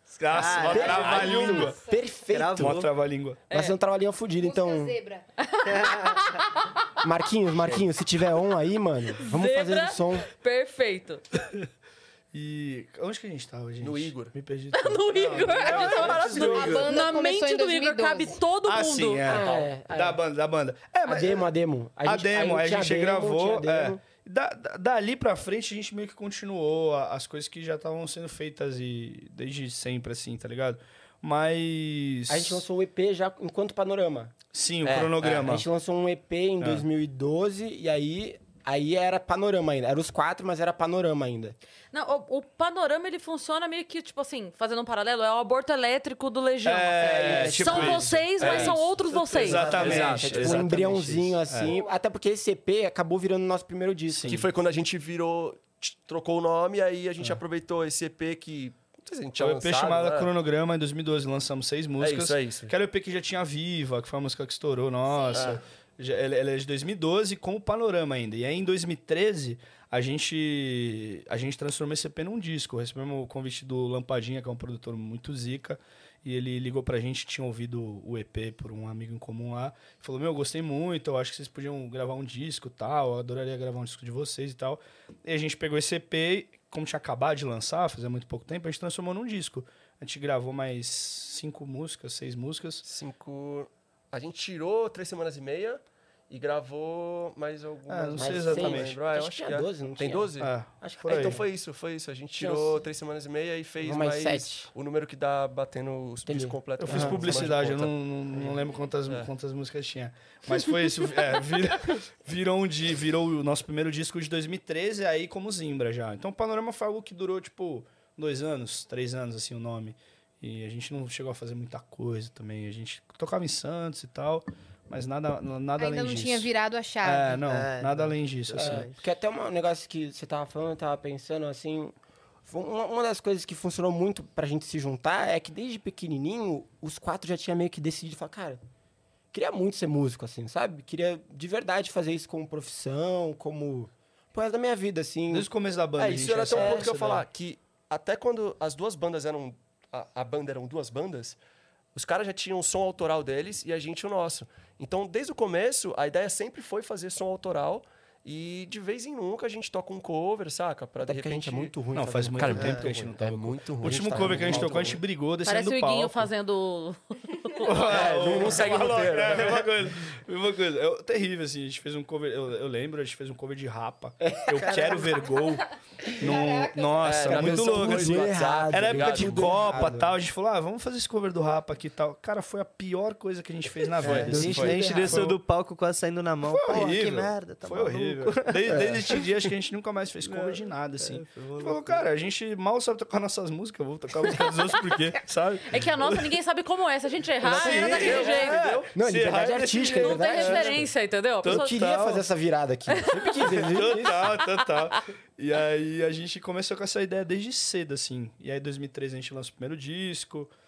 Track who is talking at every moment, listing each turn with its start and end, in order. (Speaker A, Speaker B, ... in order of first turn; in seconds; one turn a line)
Speaker A: 0.2-1.8
Speaker B: 0.3-1.1
Speaker C: 0.3-2.9
Speaker D: 0.7-2.1
Speaker B: 2.3-2.9
Speaker A: 2.5-3.4
Speaker E: 3.5-3.8
Speaker C: 3.5-5.0
Speaker D: 4.4-5.3
Speaker E: 5.4-6.8
Speaker B: 5.7-6.1
Speaker C: 7.0-10.3
Speaker E: 9.2-11.2
Speaker A: 12.3-17.0
Speaker F: 13.8-14.3
Speaker E: 14.7-19.4
Speaker D: 15.6-18.4
Speaker F: 15.9-16.8
Speaker A: 18.7-21.5
Speaker C: 19.2-20.2
Speaker F: 19.4-19.7
Speaker C: 21.1-24.0
Speaker A: 22.0-32.6
Speaker C: 32.3-34.3
Speaker A: 34.5-35.7
Speaker F: 34.9-35.3
Speaker C: 35.2-41.6
Speaker A: 36.6-36.9
Speaker E: 41.9-49.7
Speaker A: 46.6-51.8
Speaker C: 47.0-48.7
Speaker F: 48.4-48.8
Speaker F: 49.4-51.0
Speaker C: 49.6-54.5
Speaker B: 49.7-50.1
Speaker A: 54.1-54.5
Speaker F: 54.3-60.3
Speaker A: 59.4-92.8
Speaker F: 62.0-62.7
Speaker D: 65.1-65.6
Speaker F: 65.3-65.6
Speaker F: 92.8-100.5
Speaker A: 97.9-99.0
Speaker C: 98.2-101.4
Speaker A: 100.4-101.4
Speaker F: 101.1-109.3
Speaker C: 102.4-102.8
Speaker C: 103.8-104.7
Speaker C: 106.3-107.5
Speaker A: 106.8-126.5
Speaker D: 125.8-127.4
Speaker A: 127.0-128.9
Speaker B: 127.5-129.0
Speaker C: 128.5-131.9
Speaker C: 132.4-138.6
Speaker C: 139.3-145.5
Speaker A: 145.3-147.3
Speaker F: 146.0-151.4
Speaker C: 146.5-146.9
Speaker F: 151.9-161.7
Speaker C: 161.0-165.0
Speaker A: 161.9-166.3
Speaker F: 162.4-165.0
Speaker E: 165.4-167.8
Speaker A: 167.6-185.4
Speaker F: 167.8-169.7
Speaker C: 174.3-174.7
Speaker B: 174.6-175.0
Speaker D: 176.2-177.2
Speaker F: 177.0-179.9
Speaker C: 177.3-180.2
Speaker F: 184.0-185.0
Speaker B: 184.0-188.9
Speaker C: 184.1-185.2
Speaker A: 186.5-196.3
Speaker C: 188.7-189.1
Speaker B: 190.2-192.1
Speaker E: 195.7-198.7
Speaker C: 197.4-198.3
Speaker A: 197.5-200.9
Speaker F: 197.9-198.9
Speaker C: 198.9-200.9
Speaker E: 200.0-201.8
Speaker A: 201.4-202.3
Speaker C: 201.4-204.3
Speaker E: 202.9-203.9
Speaker A: 203.4-210.5